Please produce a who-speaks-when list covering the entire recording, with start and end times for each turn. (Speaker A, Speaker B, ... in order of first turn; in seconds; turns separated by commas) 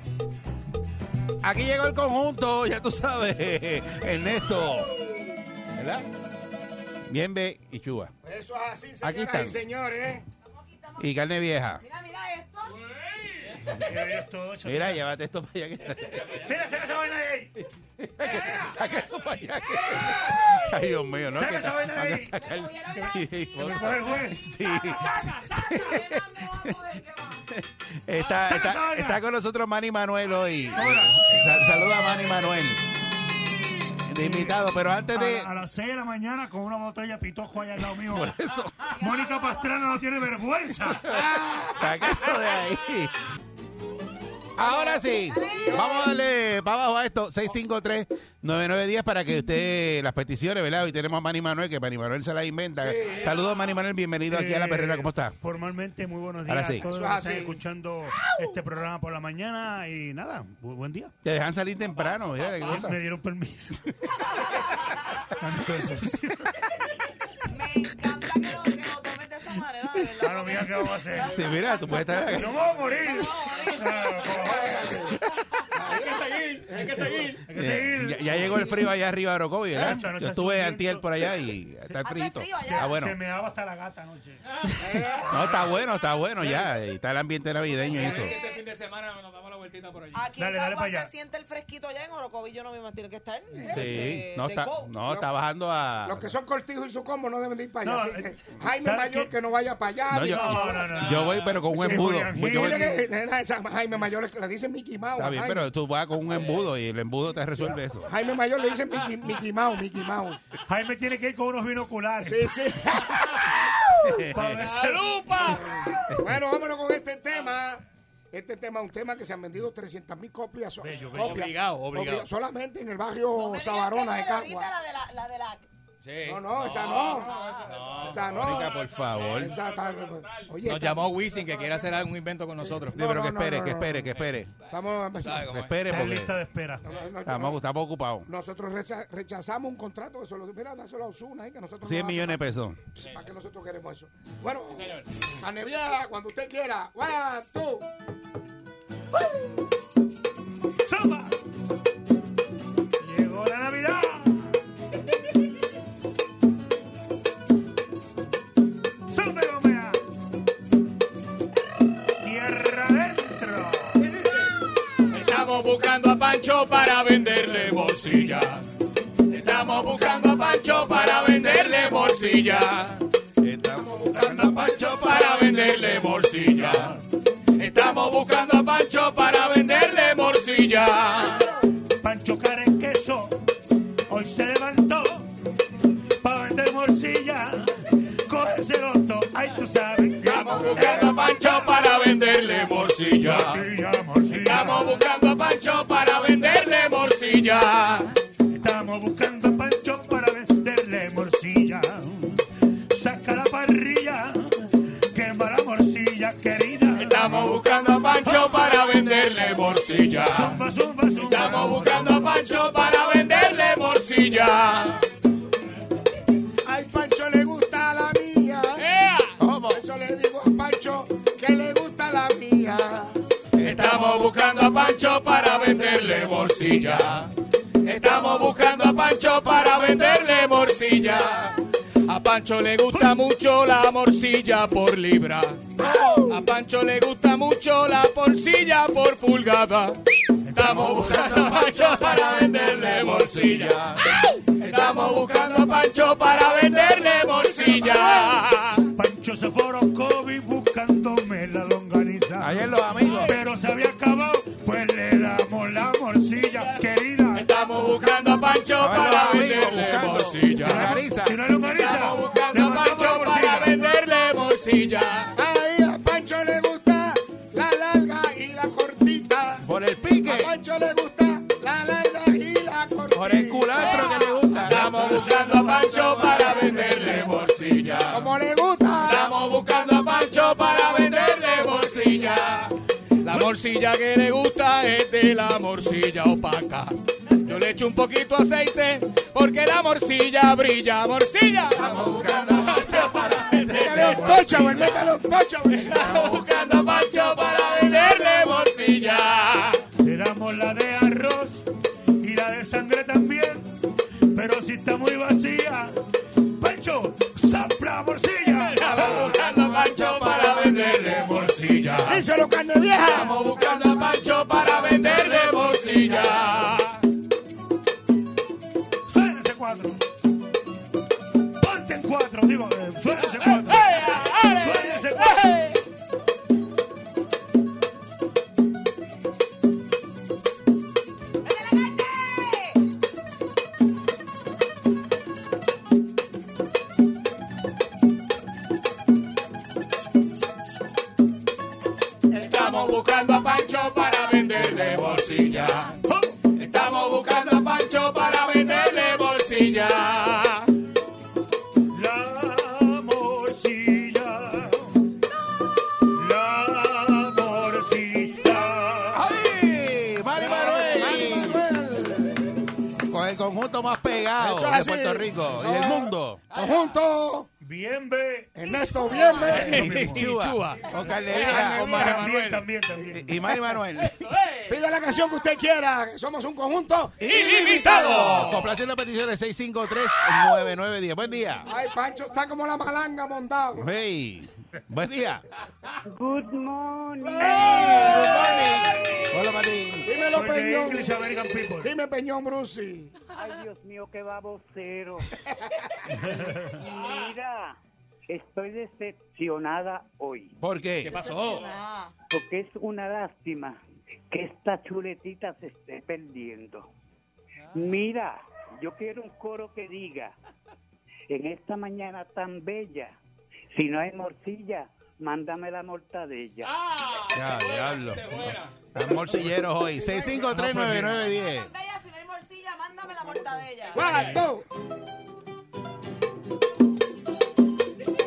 Speaker A: 1.4-5.0, Speaker A: 5.8-6.1, Speaker A: 7.1-8.1, Speaker B: 8.2-10.2, Speaker A: 9.0-9.6, Speaker C: 10.5-11.2, Speaker A: 11.0-11.8, Speaker C: 11.8-12.8, Speaker D: 13.7-15.0, Speaker A: 14.7-16.4, Speaker D: 16.2-17.6, Speaker A: 18.0-26.8, Speaker C: 18.2-18.8, Speaker C: 19.7-20.6, Speaker D: 21.3-22.3, Speaker C: 22.4-23.5, Speaker D: 23.6-24.5, Speaker C: 24.5-27.5, Speaker A: 27.5-32.8, Speaker D: 28.4-29.2, Speaker D: 30.7-31.2, Speaker A: 34.1-35.5, Speaker D: 34.1-41.1, Speaker A: 38.0-38.9, Speaker C: 39.1-39.6, Speaker B: 41.1-41.9, Speaker A: 41.1-43.2, Speaker A: 44.6-55.4, Speaker C: 44.6-46.0, Speaker B: 45.6-46.0, Speaker B: 52.8-53.3, Speaker D: 54.3-61.1, Speaker A: 56.5-56.9, Speaker B: 56.9-57.6, Speaker A: 61.2-63.0, Speaker D: 62.6-64.2, Speaker B: 62.6-62.9, Speaker C: 64.6-64.9, Speaker D: 65.4-66.5, Speaker C: 67.5-72.2, Speaker D: 70.2-71.4, Speaker A: 71.3-72.6, Speaker D: 72.3-74.9, Speaker C: 72.8-73.8, Speaker B: 74.6-75.2, Speaker B: 75.7-77.0, Speaker E: 75.8-77.4, Speaker D: 77.5-78.8, Speaker A: 77.6-83.2, Speaker D: 79.8-81.1, Speaker C: 82.0-83.0, Speaker D: 82.6-84.5, Speaker A: 84.7-88.3, Speaker B: 84.8-85.5, Speaker C: 87.8-88.7, Speaker E: 87.9-90.2, Speaker C: 90.1-95.0, Speaker D: 90.4-91.1, Speaker A: 93.7-96.3, Speaker B: 96.0-101.0, Speaker D: 97.8-99.3, Speaker A: 100.1-103.0, Speaker D: 100.2-103.0, Speaker B: 101.7-105.7, Speaker A: 105.2-108.1, Speaker B: 107.7-110.4, Speaker D: 110.7-112.6, Speaker B: 112.2-113.7, Speaker A: 114.0-114.6, Speaker D: 114.3-115.2, Speaker E: 114.5-115.7, Speaker B: 115.5-124.7, Speaker D: 120.8-121.4, Speaker E: 121.2-122.3, Speaker C: 123.3-125.7, Speaker E: 126.0-128.4, Speaker B: 126.2-127.3, Speaker C: 127.0-128.0, Speaker B: 128.0-128.8, Speaker A: 128.3-129.6, Speaker B: 129.3-131.2, Speaker E: 130.6-133.0, Speaker B: 132.6-134.1, Speaker A: 132.9-134.5, Speaker B: 134.7-135.5, Speaker E: 135.2-135.7, Speaker A: 135.5-136.3, Speaker D: 135.9-136.8, Speaker B: 136.8-137.6, Speaker A: 137.2-138.3, Speaker B: 138.3-142.4, Speaker A: 141.8-142.8, Speaker B: 143.0-147.9, Speaker E: 144.7-145.1, Speaker D: 150.8-151.3, Speaker D: 153.0-154.5, Speaker D: 159.1-160.0, Speaker D: 162.2-164.0, Speaker E: 165.1-168.6, Speaker E: 169.3-173.0, Speaker A: 173.4-175.7, Speaker E: 174.3-177.0, Speaker E: 177.6-181.5, Speaker D: 182.0-183.4, Speaker D: 184.1-185.3, Speaker D: 186.2-191.8, Speaker E: 190.2-193.6, Speaker D: 193.2-194.9, Speaker E: 194.3-198.2, Speaker D: 198.5-207.4, Speaker E: 207.0-210.6, Speaker D: 210.3-212.3, Speaker E: 211.2-215.0, Speaker B: 216.6-218.8, Speaker E: 218.8-219.4, Speaker A: 219.4-219.8, Speaker B: 219.7-223.2, Speaker E: 223.6-227.3, Speaker E: 227.8-235.7, Speaker A: 235.9-236.2, Speaker E: 236.3-240.0, Speaker D: 240.4-241.0, Speaker E: 240.5-248.9, Speaker A: 240.7-244.1, Speaker B: 247.6-248.3, Speaker D: 249.0-257.5, Speaker A: 252.4-253.4, Speaker E: 257.3-260.9, Speaker A: 258.8-261.4, Speaker D: 260.6-263.8, Speaker E: 261.8-265.4, Speaker B: 265.4-269.7, Speaker A: 269.6-270.5, Speaker B: 270.2-274.3, Speaker A: 273.1-275.2, Speaker E: 273.8-274.1, Speaker C: 274.0-274.4, Speaker E: 274.6-278.3, Speaker B: 278.1-279.3, Speaker E: 279.0-295.1, Speaker A: 291.8-294.3, Speaker B: 293.7-296.2, Speaker E: 295.7-299.8, Speaker D: 300.0-301.7, Speaker D: 302.2-306.0, Speaker D: 306.5-309.3, Speaker E: 308.5-312.2, Speaker B: 312.1-313.5, Speaker E: 313.0-317.0, Speaker D: 319.1-320.0, Speaker D: 321.6-324.0, Speaker E: 323.6-325.8, Speaker D: 324.5-325.6, Speaker C: 331.4-332.8, Speaker E: 342.3-346.0, Speaker D: 346.1-346.3, Speaker E: 346.6-350.7, Speaker D: 351.9-354.9, Speaker D: 356.1-359.3, Speaker A: 359.1-361.6, Speaker E: 360.4-361.4, Speaker B: 360.6-362.5, Speaker A: 363.1-366.4, Speaker B: 364.4-367.5, Speaker E: 366.5-366.9, Speaker D: 367.6-368.5, Speaker B: 368.6-369.9, Speaker D: 369.4-370.3, Speaker E: 369.5-372.7, Speaker A: 369.8-372.0, Speaker B: 371.3-372.2, Speaker D: 371.7-373.3, Speaker A: 373.1-374.3, Speaker E: 374.0-374.8, Speaker B: 374.7-377.2, Speaker E: 377.2-378.7, Speaker A: 377.2-381.7, Speaker B: 381.7-383.9, Speaker A: 383.7-385.4, Speaker F: 386.1-387.8, Speaker A: 387.4-390.1, Speaker B: 387.5-388.5, Speaker E: 388.0-388.4, Speaker B: 390.0-391.1, Speaker D: 390.3-391.9, Speaker B: 391.8-393.1, Speaker F: 393.3-395.3, Speaker D: 396.1-396.8, Speaker F: 396.3-397.8, Speaker F: 398.3-400.5, Speaker A: 400.6-401.1, Speaker E: 401.0-401.7, Speaker C: 401.1-402.1, Speaker F: 402.3-403.8, Speaker F: 404.3-406.9, Speaker F: 407.7-410.3, Speaker F: 411.3-413.1, Speaker F: 413.7-416.7, Speaker E: 416.6-418.7, Speaker A: 417.3-421.7, Speaker B: 420.0-420.4, Speaker D: 420.5-421.3, Speaker C: 421.3-424.2, Speaker B: 423.9-424.7, Speaker D: 424.1-424.4